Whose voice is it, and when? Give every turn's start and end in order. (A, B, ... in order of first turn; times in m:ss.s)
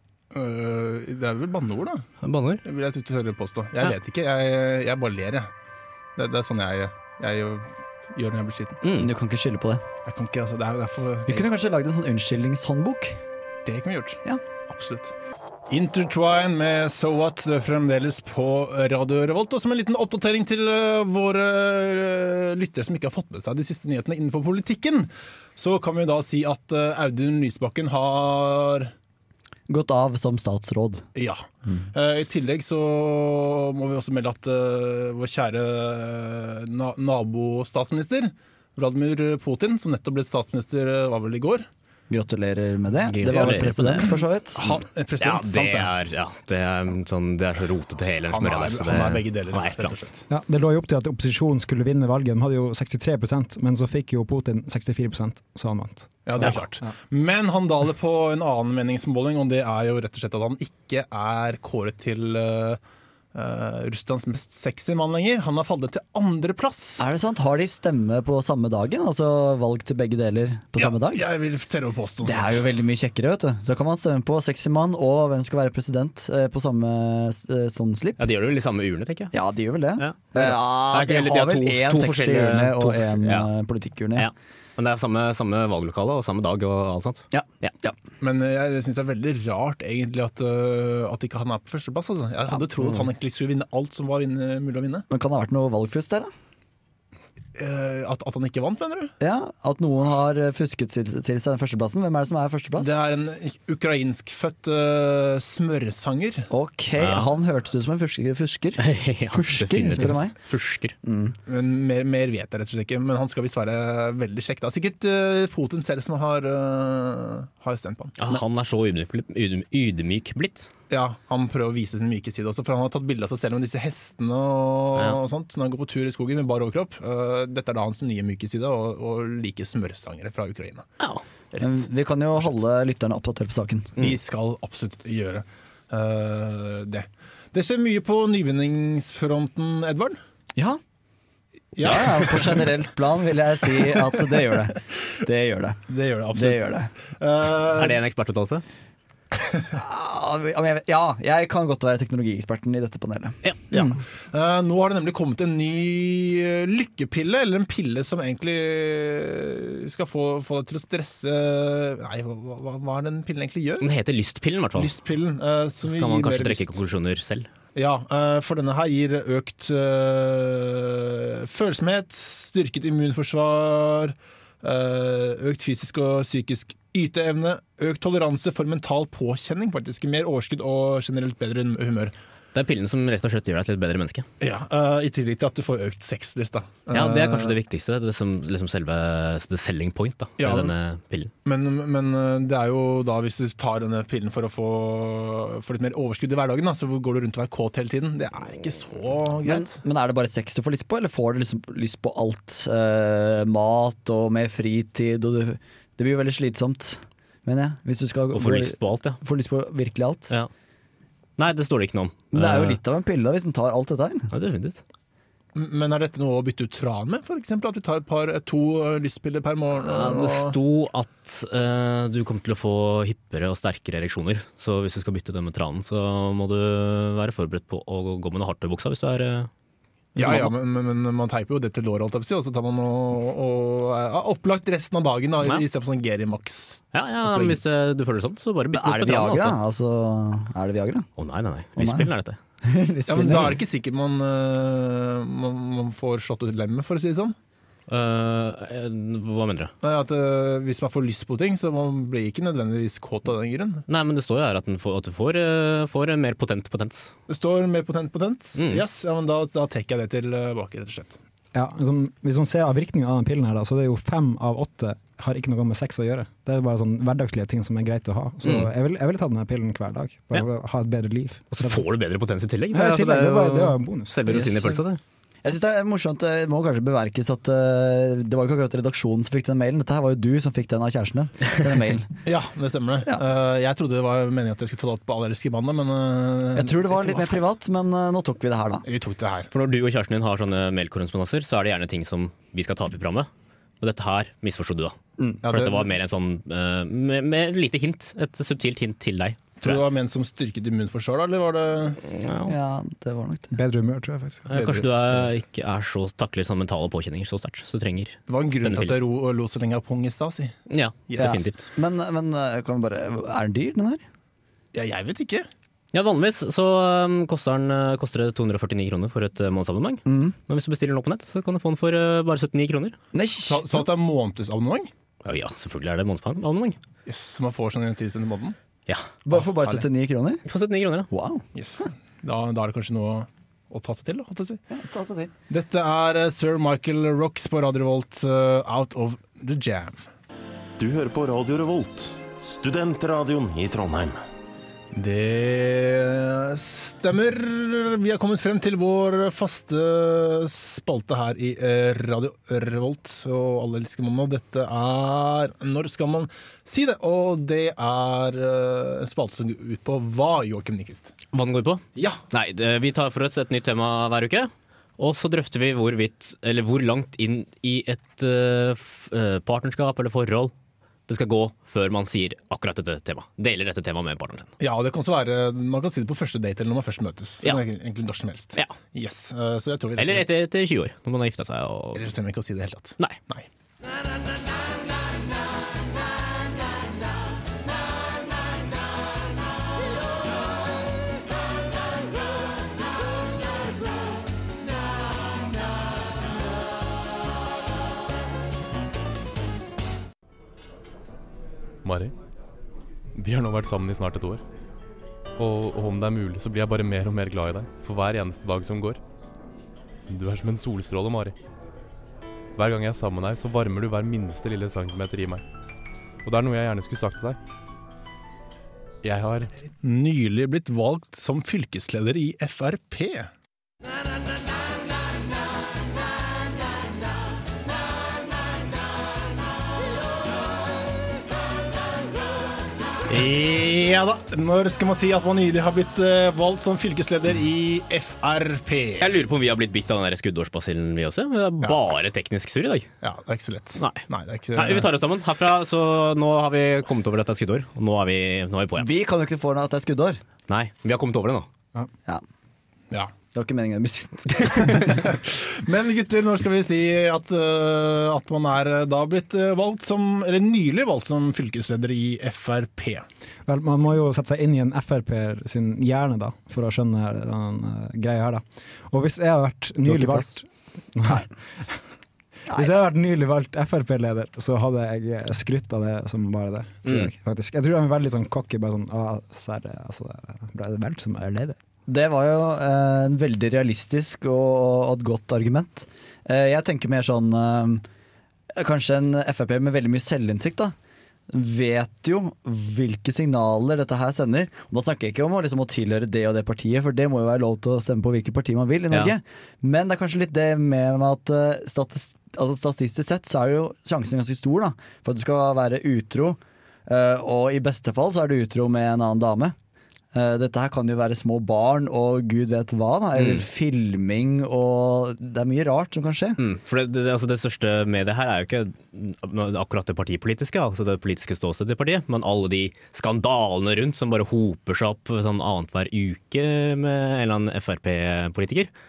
0:00.3-0:02.0 A
0:02.2-0:02.6 B
0:02.6-0:05.5 A
0:06.2-0:08.8 A
0:08.8-0:09.1 B
0:08.9-0:09.8 C
0:10.0-0:11.5 A
0:11.3-0:13.2 C
0:13.6-0:15.1 A
0:15.7-0:28.9 A
0:29.7-0:31.0 C
0:31.1-0:41.7 A
0:42.1-0:44.7 C
0:43.1-0:44.2 B
0:43.3-0:43.6 A
0:44.6-0:45.9 A
0:45.2-0:50.1 B
0:48.3-0:50.2 A
0:50.3-0:56.5 D
0:56.2-1:02.8 A
1:03.3-1:07.0 A
1:07.0-1:11.3 C
1:10.8-1:12.6 A
1:12.2-1:18.2 C
1:18.2-1:19.3 B
1:19.3-1:24.3 C
1:20.0-1:23.5 B
1:24.2-1:27.7 B
1:27.3-1:27.9 C
1:28.2-1:35.0 A
1:35.1-1:36.3 C
1:37.5-1:39.1 A
1:39.2-1:42.9 C
1:42.8-1:46.5 A
1:46.5-1:50.3 C
1:47.0-1:47.3 B
1:48.8-1:50.9 B
1:51.0-1:51.4 C
1:51.5-1:58.1 A
1:58.2-2:00.7 B
2:00.9-2:10.9 A
2:11.6-2:13.9 C
2:14.0-2:20.2 A
2:21.7-2:22.7 A
2:21.8-2:26.9 C
2:25.9-2:28.0 A
2:27.8-2:28.6 B
2:29.7-2:33.9 C
2:33.7-2:43.9 A
2:43.8-2:44.9 B
2:44.8-2:46.8 A
2:45.8-2:47.5 B
2:47.7-3:02.1 A
3:02.5-3:04.2 B
3:04.4-3:07.5 A
3:06.9-3:11.3 B
3:10.4-3:10.7 A
3:11.4-3:19.8 A
3:19.4-3:30.3 C
3:28.3-3:29.2 B
3:31.4-3:32.8 B
3:32.3-3:34.3 C
3:34.3-3:34.8 B
3:35.5-3:40.6 A
3:39.8-3:49.5 B
3:50.2-3:57.5 A
3:50.2-3:50.5 B
3:56.9-3:59.6 B
3:58.7-4:01.0 C
4:01.2-4:02.4 B
4:01.8-4:02.1 C
4:02.6-4:03.6 C
4:03.1-4:07.3 A
4:07.9-4:09.7 B
4:09.8-4:13.8 A
4:13.9-4:17.1 B
4:17.3-4:21.2 A
4:18.6-4:18.8 B
4:21.5-4:31.9 D
4:28.4-4:28.7 B
4:31.5-4:35.0 B
4:32.7-4:34.4 D
4:35.4-4:42.1 C
4:42.2-4:47.4 A
4:46.5-4:48.8 C
4:48.8-4:49.5 A
4:49.5-4:53.3 B
4:53.8-4:59.8 B
4:55.4-4:55.9 A
4:59.6-5:02.0 A
5:02.0-5:02.5 B
5:02.4-5:03.6 C
5:03.5-5:04.7 D
5:04.5-5:09.0 B
5:04.5-5:05.3 A
5:08.3-5:10.6 A
5:10.7-5:11.7 B
5:11.1-5:11.4 A
5:11.2-5:14.0 C
5:14.7-5:15.5 A
5:15.9-5:23.0 B
5:20.0-5:20.3 C
5:23.1-5:23.8 C
5:23.4-5:24.9 A
5:25.2-5:26.8 B
5:27.0-5:28.6 A
5:29.2-5:30.4 C
5:30.4-5:31.1 B
5:31.1-5:31.4 C
5:31.5-5:34.6 A
5:34.7-5:35.3 C
5:35.5-5:40.1 A
5:40.8-5:44.2 E
5:44.9-6:01.1 A
6:01.3-6:10.5 B
6:02.0-6:02.2 A
6:11.1-6:14.5 B
6:14.6-6:20.2 A
6:20.0-6:22.1 B
6:21.9-6:23.4 A
6:41.8-6:42.1 F
6:43.1-6:44.4 F
6:45.4-6:49.0 F
6:50.1-6:51.3 F
6:52.6-6:55.4 F
6:56.2-6:57.4 F
6:59.0-6:59.5 F
6:59.8-7:03.3 A
7:13.1-7:19.1 A
7:19.0-7:22.9 B
7:23.0-7:24.9 A
7:23.8-7:28.9 B
7:28.8-7:30.2 C
7:30.5-7:31.5 B
7:33.3-7:35.0 C
7:34.8-7:43.0 A
7:43.4-7:51.8 D
7:49.8-7:50.3 C
7:52.5-8:01.6 D
7:56.8-7:57.1 B
8:01.9-8:07.8 C
8:08.5-8:10.7 C
8:11.3-8:29.5 C
8:30.1-8:36.4 C
8:33.2-8:33.4 B
8:36.4-8:48.7 B